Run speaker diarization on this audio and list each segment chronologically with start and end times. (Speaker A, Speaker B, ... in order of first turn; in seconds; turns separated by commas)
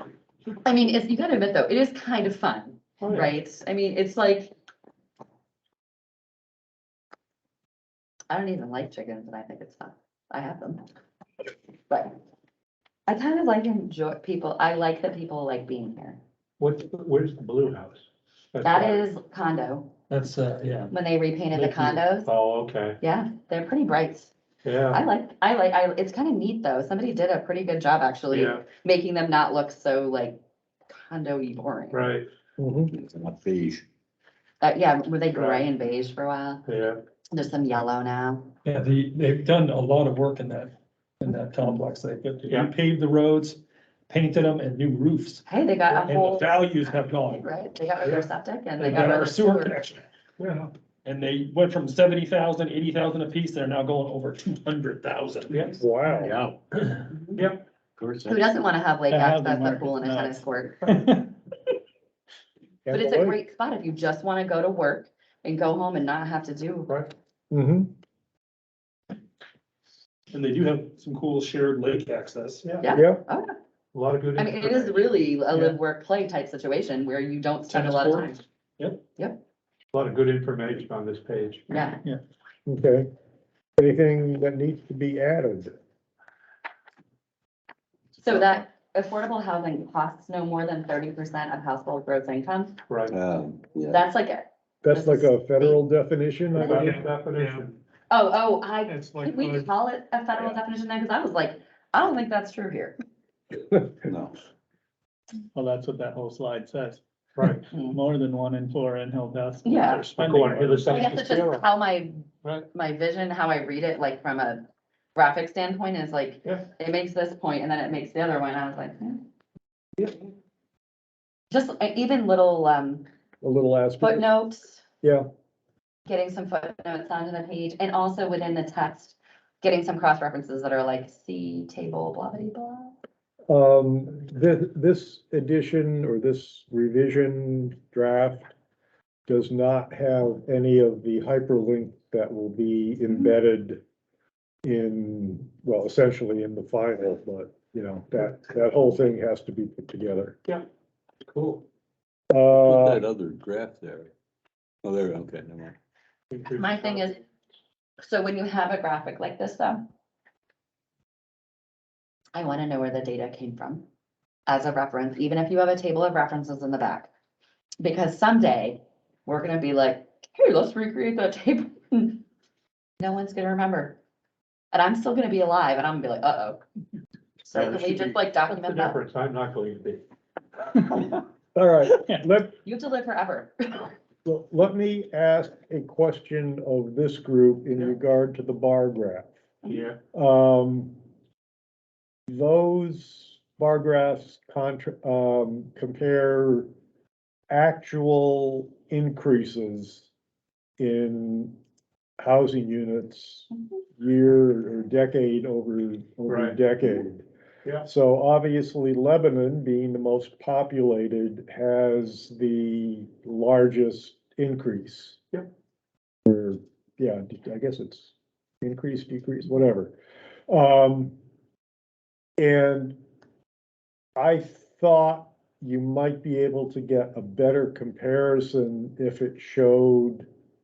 Speaker A: 0.6-4.6, Speaker B: 3.0-3.3, Speaker A: 8.3-10.8, Speaker A: 13.1-16.2, Speaker B: 16.6-19.0, Speaker A: 18.6-19.9, Speaker C: 20.1-20.9, Speaker A: 20.9-22.3, Speaker B: 22.3-23.0, Speaker A: 23.0-24.3, Speaker B: 24.6-25.0, Speaker A: 24.9-32.1, Speaker B: 28.3-28.6, Speaker B: 31.9-32.3, Speaker D: 32.6-32.9, Speaker E: 32.9-33.8, Speaker A: 34.6-36.6, Speaker B: 35.3-35.6, Speaker B: 36.6-37.0, Speaker A: 37.3-38.5, Speaker C: 38.6-45.5, Speaker A: 45.5-49.8, Speaker C: 46.0-47.4, Speaker C: 48.8-50.0, Speaker B: 50.4-50.7, Speaker C: 51.0-55.6, Speaker B: 55.5-55.9, Speaker D: 55.8-56.4, Speaker A: 57.1-57.5, Speaker B: 57.4-57.6, Speaker A: 58.2-60.9, Speaker F: 59.1-61.4, Speaker D: 62.9-63.4, Speaker A: 62.9-66.9, Speaker B: 66.9-67.1, Speaker D: 67.5-67.9, Speaker C: 70.3-72.6, Speaker B: 72.6-72.9, Speaker A: 72.8-73.5, Speaker D: 72.9-73.2, Speaker B: 73.9-75.3, Speaker A: 74.4-78.4, Speaker C: 77.7-79.0, Speaker B: 79.9-81.7, Speaker A: 81.7-82.0, Speaker D: 82.7-83.1, Speaker D: 83.8-85.7, Speaker A: 88.2-92.8, Speaker B: 92.9-93.2, Speaker E: 93.1-94.0, Speaker A: 93.9-95.8, Speaker D: 94.8-97.1, Speaker B: 96.6-97.7, Speaker A: 96.6-97.0, Speaker A: 98.1-103.0, Speaker B: 98.9-99.7, Speaker E: 104.1-104.3, Speaker F: 105.5-107.0, Speaker B: 107.4-107.6, Speaker F: 107.5-111.1, Speaker A: 107.7-108.0, Speaker A: 109.7-110.0, Speaker B: 110.1-111.7, Speaker A: 110.9-114.6, Speaker A: 115.2-119.2, Speaker A: 121.5-123.1, Speaker D: 123.4-124.3, Speaker A: 124.0-124.8, Speaker A: 126.1-132.9, Speaker D: 133.5-138.5, Speaker D: 139.3-143.8, Speaker D: 144.6-150.4, Speaker B: 151.3-151.6, Speaker D: 152.3-153.1, Speaker E: 152.5-154.1, Speaker E: 154.8-155.8, Speaker B: 156.3-157.1, Speaker A: 156.5-157.2, Speaker A: 158.0-159.9, Speaker A: 162.3-163.8, Speaker A: 164.5-167.1, Speaker A: 167.8-172.2, Speaker A: 173.0-174.0, Speaker A: 174.7-176.6, Speaker A: 177.4-179.0, Speaker B: 177.6-180.0, Speaker D: 181.6-182.6, Speaker A: 182.7-183.9, Speaker D: 184.2-189.4, Speaker B: 189.7-190.0, Speaker D: 190.1-190.9, Speaker D: 192.3-196.7, Speaker D: 197.5-200.1, Speaker D: 200.8-201.6, Speaker D: 202.2-207.2, Speaker B: 206.3-206.6, Speaker D: 207.8-215.2, Speaker D: 216.3-219.9, Speaker D: 220.5-221.1, Speaker D: 222.4-223.0, Speaker D: 224.2-230.3